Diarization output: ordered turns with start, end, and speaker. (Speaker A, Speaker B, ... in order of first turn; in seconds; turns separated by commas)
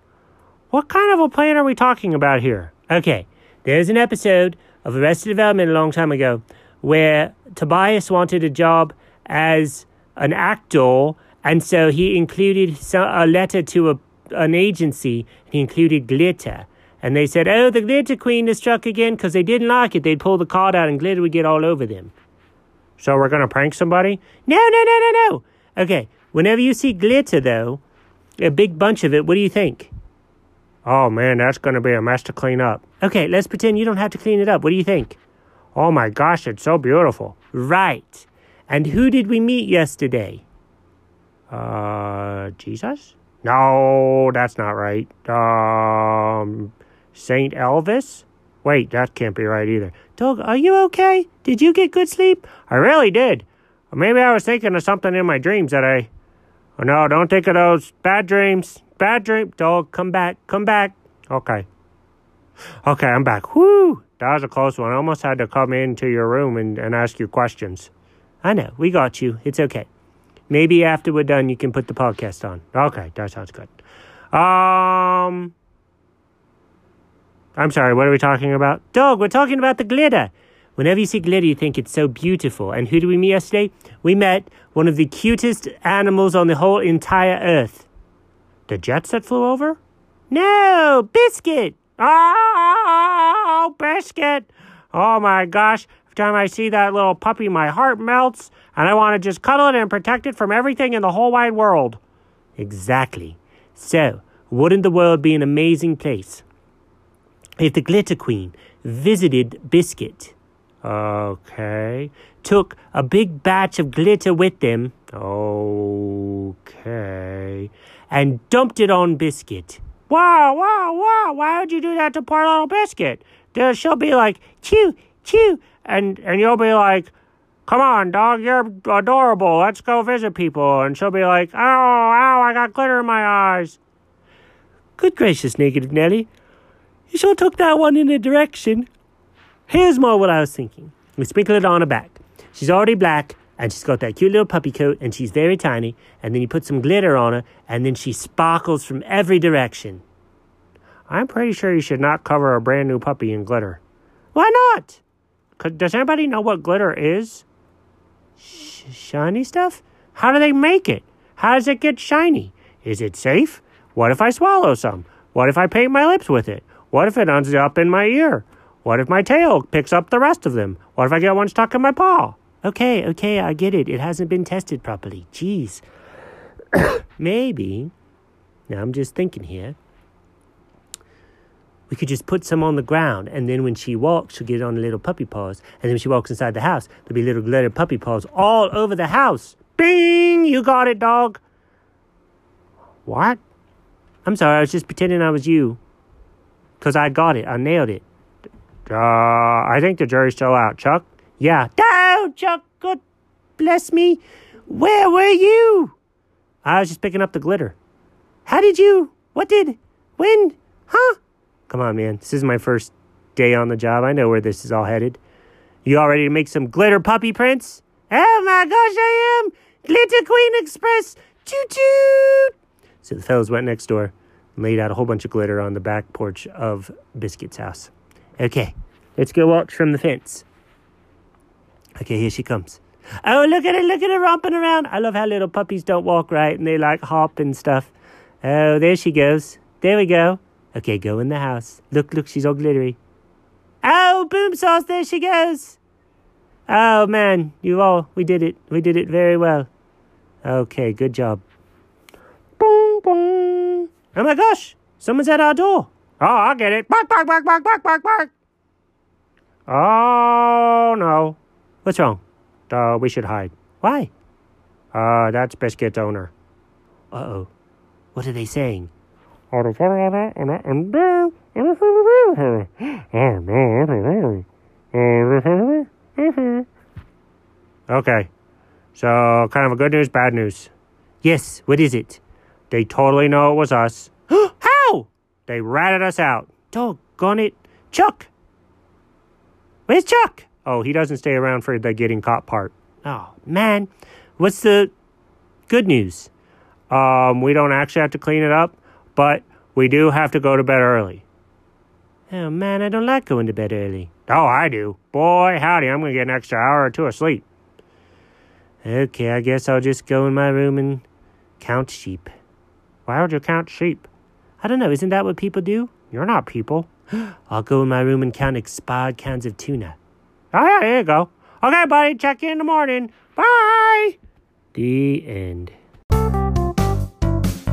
Speaker A: 0.7-22.1, Speaker A: 23.0-27.8, Speaker A: 28.4-29.9, Speaker A: 30.9-35.2, Speaker A: 35.8-40.4, Speaker A: 41.5-56.1, Speaker A: 56.8-61.7, Speaker A: 62.8-67.9, Speaker A: 68.4-69.9, Speaker A: 70.5-73.7, Speaker A: 74.3-75.5, Speaker A: 77.6-87.9, Speaker A: 88.7-89.8, Speaker A: 90.3-102.0, Speaker A: 102.6-106.4, Speaker A: 107.6-127.1, Speaker A: 127.7-133.8, Speaker A: 135.0-136.3, Speaker A: 137.1-138.9, Speaker A: 139.7-150.0, Speaker A: 151.1-153.8, Speaker A: 154.3-155.0, Speaker A: 155.6-157.5, Speaker A: 158.4-175.8, Speaker A: 176.8-177.9, Speaker A: 178.7-179.8, Speaker A: 181.9-191.4, Speaker A: 193.1-193.4, Speaker A: 194.2-195.8, Speaker A: 196.8-198.0, Speaker A: 198.9-203.0, Speaker A: 203.6-205.9, Speaker A: 206.6-207.8, Speaker A: 208.5-215.2, Speaker A: 215.8-230.5, Speaker A: 232.0-237.9, Speaker A: 238.4-243.0, Speaker A: 243.8-245.8, Speaker A: 246.7-249.7, Speaker A: 250.4-251.4, Speaker A: 252.6-258.3, Speaker A: 259.7-264.1, Speaker A: 264.9-266.3, Speaker A: 267.1-267.5, Speaker A: 268.1-268.9, Speaker A: 269.5-276.7, Speaker A: 277.9-278.3, Speaker A: 278.9-280.7, Speaker A: 281.2-288.3, Speaker A: 289.9-294.9, Speaker A: 295.7-296.3, Speaker A: 296.9-301.2, Speaker A: 302.3-307.5, Speaker A: 308.8-311.1, Speaker A: 311.6-312.3, Speaker A: 313.1-314.1, Speaker A: 314.6-320.0, Speaker A: 320.5-324.2, Speaker A: 324.7-325.8